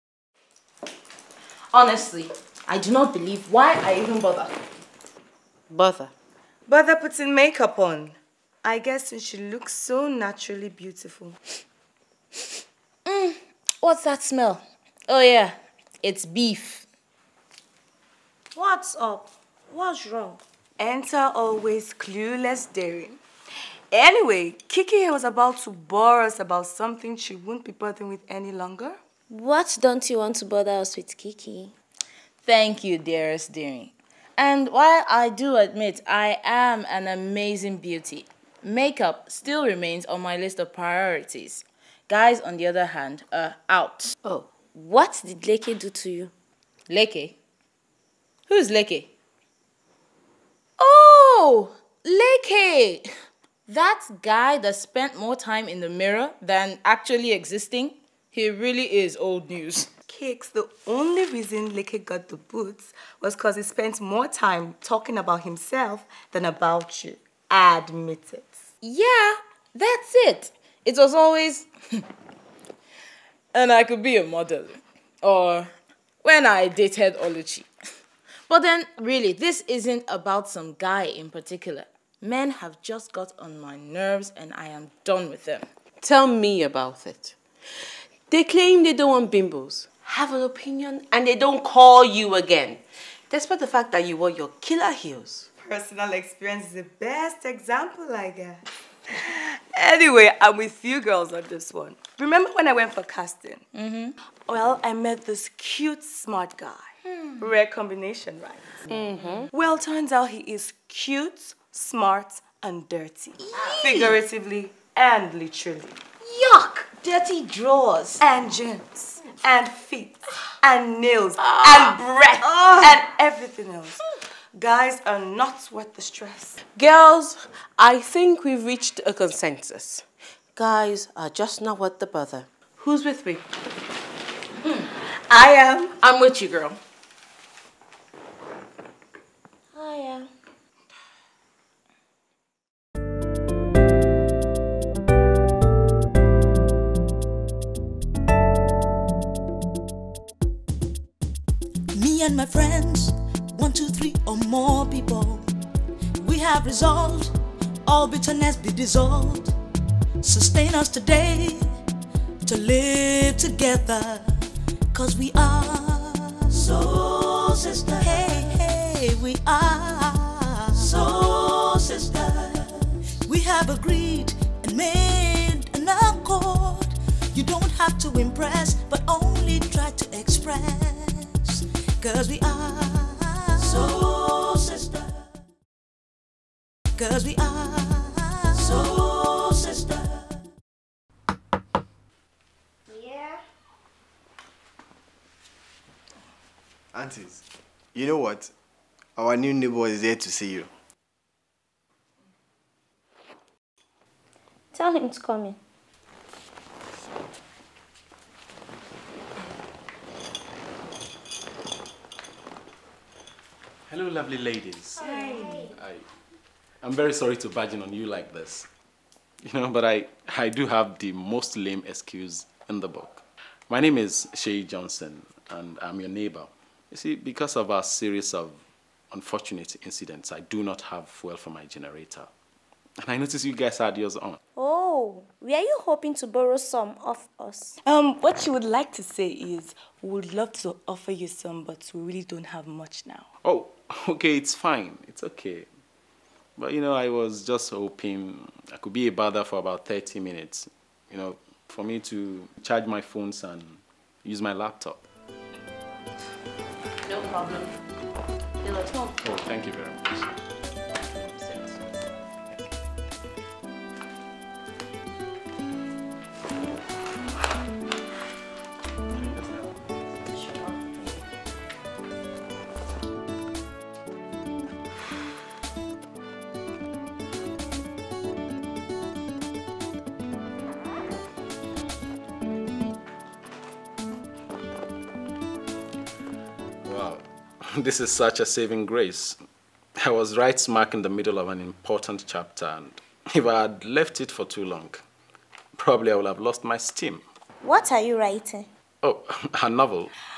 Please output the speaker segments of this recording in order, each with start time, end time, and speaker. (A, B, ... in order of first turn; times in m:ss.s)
0:01.7-0:04.6 A
0:05.7-0:06.1 B
0:06.7-0:11.4 C
0:13.0-0:16.8 A
0:18.5-0:20.4 D
0:20.8-0:23.2 C
0:23.9-0:29.0 C
0:29.3-0:31.7 D
0:32.4-0:44.1 A
0:44.7-0:46.3 D
0:46.9-0:47.4 A
0:48.5-0:49.1 A
0:50.8-0:53.1 A
0:53.7-0:59.9 A
1:00.1-1:08.6 C
1:08.8-1:12.0 A
1:13.5-1:15.7 A
1:16.2-1:17.7 A
1:18.5-1:25.7 A
1:26.0-1:27.3 B
1:28.3-1:35.5 B
1:35.6-1:43.6 C
1:43.7-1:44.1 A
1:44.4-1:46.9 C
1:47.1-1:47.4 A
1:47.4-1:48.8 C
1:48.9-1:49.5 B
1:49.5-1:56.0 C
1:53.4-1:54.2 A
1:56.2-1:58.2 A
1:58.2-2:04.0 C
2:01.4-2:03.0 A
2:04.5-2:06.6 C
2:06.8-2:13.4 B
2:15.3-2:15.9 C
2:16.0-2:16.8 A
2:19.7-2:20.3 D
2:31.9-2:35.4 E
2:36.2-2:37.3 E
2:37.8-2:39.5 E
2:40.2-2:41.7 E
2:42.4-2:52.7 E
2:53.2-3:04.9 E
3:07.0-3:09.5 E
3:12.9-3:13.4 D
3:16.9-3:18.5 F
3:19.2-3:20.7 F
3:24.7-3:25.6 D
3:33.9-3:36.0 G
3:35.0-3:35.7 D
3:35.1-3:35.6 C
3:36.8-3:38.7 G
3:39.4-3:48.6 G
3:49.1-3:52.3 G
3:53.0-3:54.4 G
3:54.5-3:57.8 D
3:57.8-4:03.3 C
4:03.4-4:05.7 G
4:06.6-4:15.0 G
4:17.0-4:17.7 A
4:18.6-4:19.2 A
4:19.2-4:20.4 G
4:21.1-4:22.0 G
4:29.1-4:29.8 G
4:30.3-4:31.1 D
4:46.8-4:49.4 G
4:50.0-4:55.0 G
4:55.8-4:57.2 G
4:57.6-4:58.7 D
4:59.0-5:00.1 G